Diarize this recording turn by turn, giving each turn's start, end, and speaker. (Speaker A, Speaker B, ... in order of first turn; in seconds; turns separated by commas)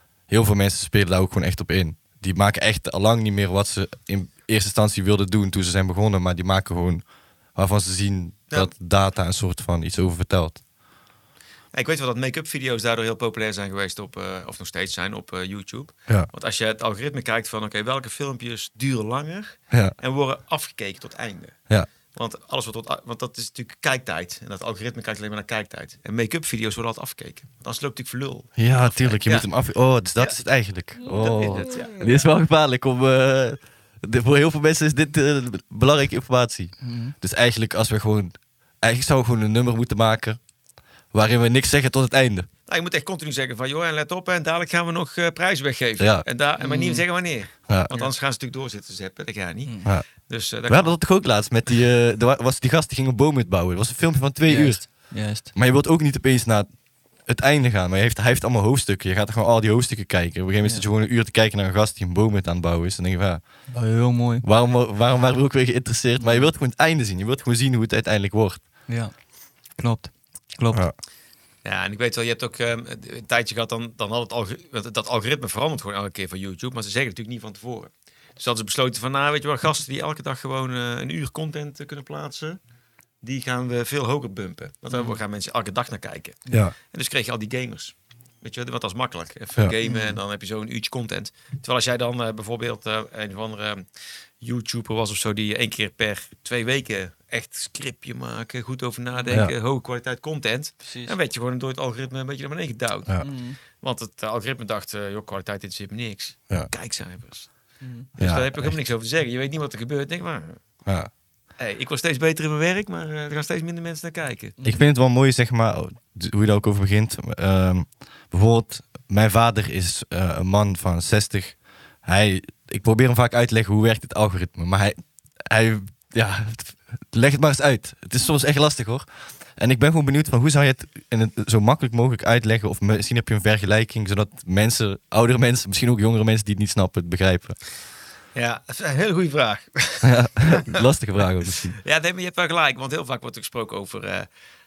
Speaker A: 0.3-10.6, Speaker B: 11.7-21.6, Speaker B: 22.1-29.5, Speaker A: 28.6-40.4, Speaker B: 31.0-32.3, Speaker C: 36.8-37.1, Speaker A: 41.1-42.5, Speaker B: 42.7-51.0, Speaker A: 46.0-46.2, Speaker C: 46.6-47.0, Speaker C: 49.7-49.9, Speaker A: 50.7-56.7, Speaker C: 54.5-55.5, Speaker A: 57.3-63.5, Speaker C: 63.7-64.4, Speaker A: 64.4-68.6, Speaker C: 66.2-66.5, Speaker C: 68.9-69.1, Speaker C: 69.8-70.8, Speaker B: 71.6-82.6, Speaker B: 83.2-93.8, Speaker C: 84.9-85.2, Speaker A: 86.5-86.7, Speaker C: 89.8-90.2, Speaker B: 94.4-107.5, Speaker C: 100.8-101.2, Speaker C: 103.2-103.6, Speaker C: 107.8-108.1, Speaker B: 108.2-110.6, Speaker A: 108.2-108.8, Speaker B: 111.6-114.6, Speaker A: 114.6-129.1, Speaker A: 129.6-137.6, Speaker B: 138.3-140.8, Speaker A: 140.0-141.8, Speaker B: 141.7-144.3